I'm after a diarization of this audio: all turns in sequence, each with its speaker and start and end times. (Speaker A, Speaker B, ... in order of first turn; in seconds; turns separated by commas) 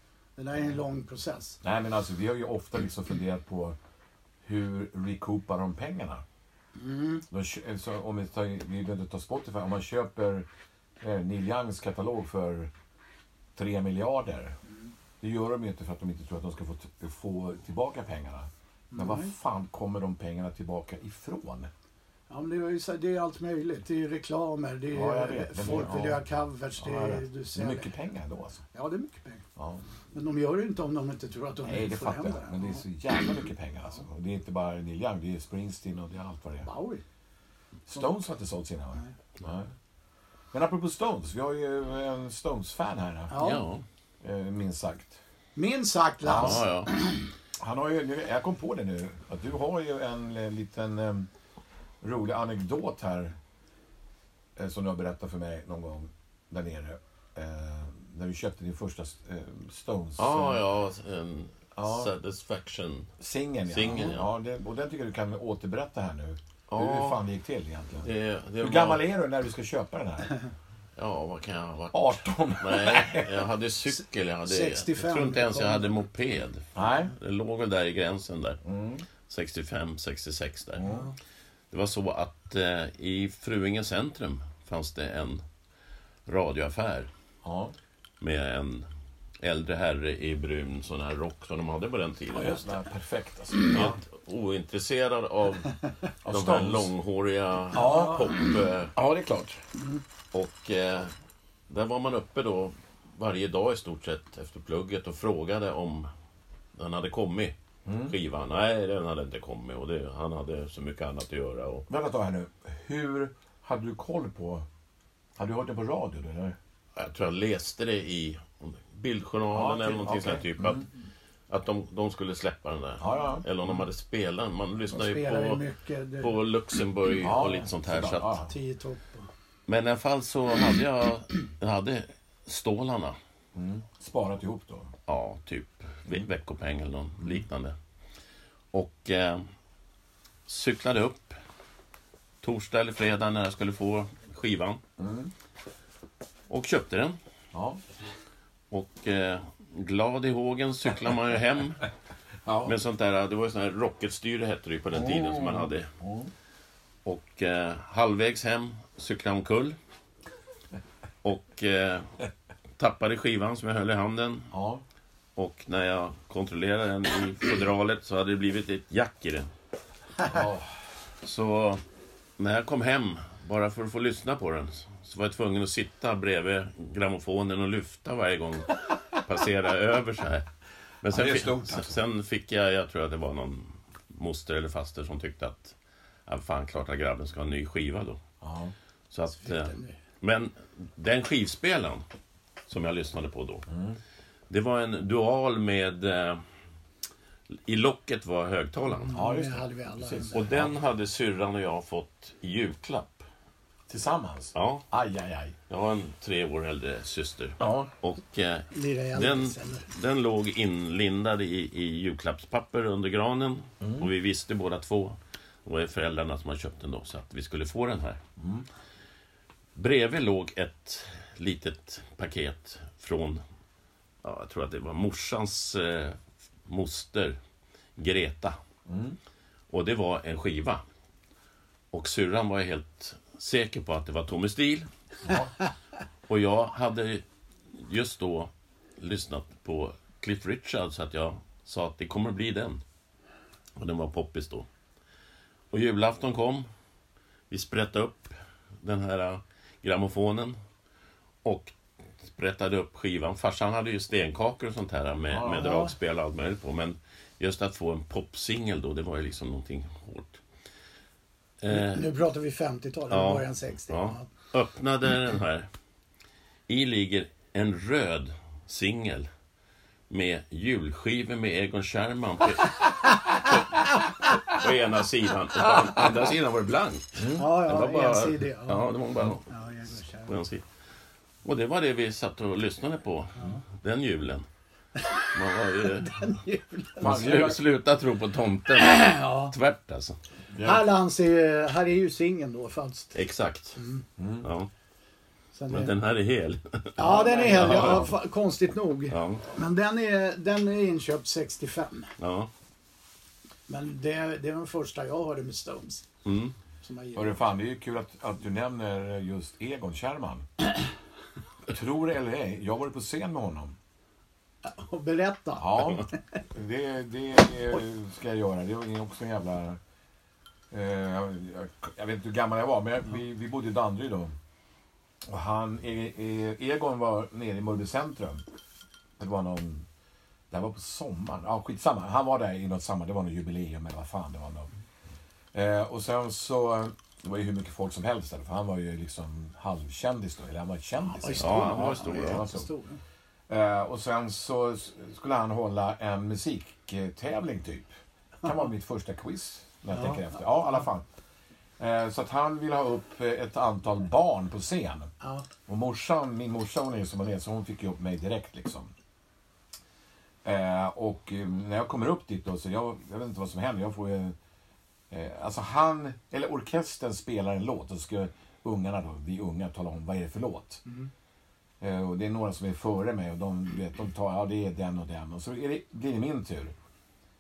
Speaker A: 0.4-1.6, Speaker B: 1.6-3.8, Speaker B: 4.4-6.2, Speaker A: 6.8-7.2, Speaker B: 7.3-10.5, Speaker B: 11.0-12.7, Speaker B: 13.6-14.6, Speaker B: 15.2-21.7, Speaker A: 18.9-19.3, Speaker A: 22.3-27.9, Speaker B: 24.9-26.2, Speaker B: 26.8-28.6, Speaker A: 28.7-29.4, Speaker B: 29.6-29.8, Speaker A: 30.1-32.8, Speaker B: 31.6-36.7, Speaker A: 36.6-37.0, Speaker B: 37.9-39.7, Speaker B: 40.5-43.3, Speaker A: 43.3-43.7, Speaker C: 43.4-43.8, Speaker B: 44.2-45.2, Speaker A: 45.6-47.3, Speaker B: 46.2-46.6, Speaker C: 46.4-46.9, Speaker B: 47.6-51.3, Speaker B: 52.0-53.4, Speaker B: 54.6-60.6, Speaker C: 60.2-63.1, Speaker B: 61.8-62.1, Speaker B: 63.2-70.4, Speaker C: 63.7-64.3, Speaker C: 66.7-67.2, Speaker C: 68.0-69.0, Speaker C: 71.0-78.6, Speaker B: 71.9-73.5, Speaker A: 73.9-76.0, Speaker B: 76.8-77.1, Speaker B: 78.6-79.0, Speaker C: 79.3-80.9, Speaker B: 80.8-81.1, Speaker C: 81.7-85.4, Speaker C: 86.3-87.1, Speaker B: 87.4-87.7, Speaker C: 88.2-88.9, Speaker C: 89.4-92.6, Speaker B: 92.3-94.0, Speaker C: 93.7-98.9, Speaker B: 96.2-96.9, Speaker B: 97.7-98.3, Speaker A: 97.8-98.4, Speaker B: 99.0-99.6, Speaker C: 100.3-101.1, Speaker C: 101.7-106.1, Speaker C: 106.8-111.9, Speaker B: 107.8-108.1, Speaker B: 111.9-114.7, Speaker B: 115.4-116.6, Speaker C: 117.0-120.8, Speaker B: 119.5-120.8, Speaker C: 121.5-125.6, Speaker B: 123.0-123.5, Speaker A: 124.9-126.3, Speaker C: 126.2-128.4, Speaker B: 127.2-128.5, Speaker A: 128.4-129.3, Speaker C: 129.7-133.2, Speaker B: 133.6-134.9, Speaker C: 135.1-137.8, Speaker C: 138.7-139.5, Speaker C: 140.5-141.3, Speaker C: 142.4-144.8, Speaker B: 145.0-145.3, Speaker C: 146.5-147.2, Speaker B: 147.5-147.8, Speaker C: 148.7-151.9, Speaker B: 152.5-152.8, Speaker C: 152.7-155.9, Speaker B: 154.9-156.3, Speaker C: 157.1-159.8, Speaker C: 161.2-162.1, Speaker C: 162.8-164.5, Speaker B: 164.5-164.8, Speaker C: 165.4-169.5, Speaker B: 170.3-170.7, Speaker C: 171.2-171.8, Speaker C: 172.4-180.5, Speaker C: 181.0-185.8, Speaker B: 181.1-182.0, Speaker C: 186.3-188.2, Speaker B: 188.4-188.7, Speaker C: 189.1-192.0, Speaker A: 189.4-190.0, Speaker C: 192.7-193.7, Speaker B: 193.7-194.0, Speaker C: 194.5-196.4, Speaker C: 197.5-199.1, Speaker A: 198.9-200.5, Speaker B: 199.1-200.8, Speaker C: 200.3-203.2, Speaker B: 203.9-205.6, Speaker C: 204.6-204.9, Speaker C: 205.7-218.2, Speaker B: 207.6-207.9, Speaker A: 208.7-209.9, Speaker B: 213.8-214.1, Speaker B: 218.4-218.7, Speaker C: 219.8-223.4, Speaker C: 224.2-227.4, Speaker C: 228.0-228.6, Speaker B: 228.9-229.2, Speaker C: 229.7-230.8, Speaker C: 231.9-234.9, Speaker B: 235.2-235.5, Speaker C: 236.3-242.8, Speaker C: 243.8-244.7, Speaker C: 245.7-246.7, Speaker C: 247.5-250.6, Speaker C: 251.4-260.4, Speaker B: 255.3-255.8, Speaker A: 255.6-255.9, Speaker C: 261.6-262.1, Speaker A: 261.7-264.3, Speaker C: 263.1-265.7, Speaker C: 266.7-269.3, Speaker C: 270.1-279.5, Speaker B: 277.2-277.5, Speaker A: 277.3-278.9, Speaker A: 279.5-280.4, Speaker C: 280.2-280.6, Speaker C: 281.4-284.5, Speaker C: 285.3-286.2, Speaker A: 285.8-287.4, Speaker B: 287.0-287.6, Speaker C: 287.0-290.2, Speaker A: 288.8-289.5, Speaker A: 290.6-293.2, Speaker C: 293.1-293.8, Speaker A: 293.8-294.0, Speaker B: 294.2-294.5, Speaker C: 294.4-294.7, Speaker A: 295.5-295.9, Speaker C: 295.7-298.1, Speaker A: 297.0-302.1, Speaker B: 297.1-298.1, Speaker C: 299.1-299.4, Speaker C: 302.2-302.5, Speaker A: 303.7-306.1, Speaker C: 306.2-306.6, Speaker A: 306.8-307.4, Speaker B: 307.1-310.5, Speaker B: 311.7-313.8, Speaker A: 314.6-316.1, Speaker B: 315.6-319.8, Speaker B: 320.7-324.4, Speaker B: 325.2-328.4, Speaker B: 329.2-329.9, Speaker B: 330.5-334.7, Speaker B: 335.5-342.7, Speaker A: 341.1-343.0, Speaker C: 341.4-342.4, Speaker B: 343.5-347.9, Speaker B: 348.4-351.1, Speaker A: 349.9-350.8, Speaker B: 351.8-355.1, Speaker A: 355.2-355.5, Speaker B: 355.7-358.9, Speaker B: 360.4-364.4, Speaker B: 365.1-370.8, Speaker B: 371.8-376.7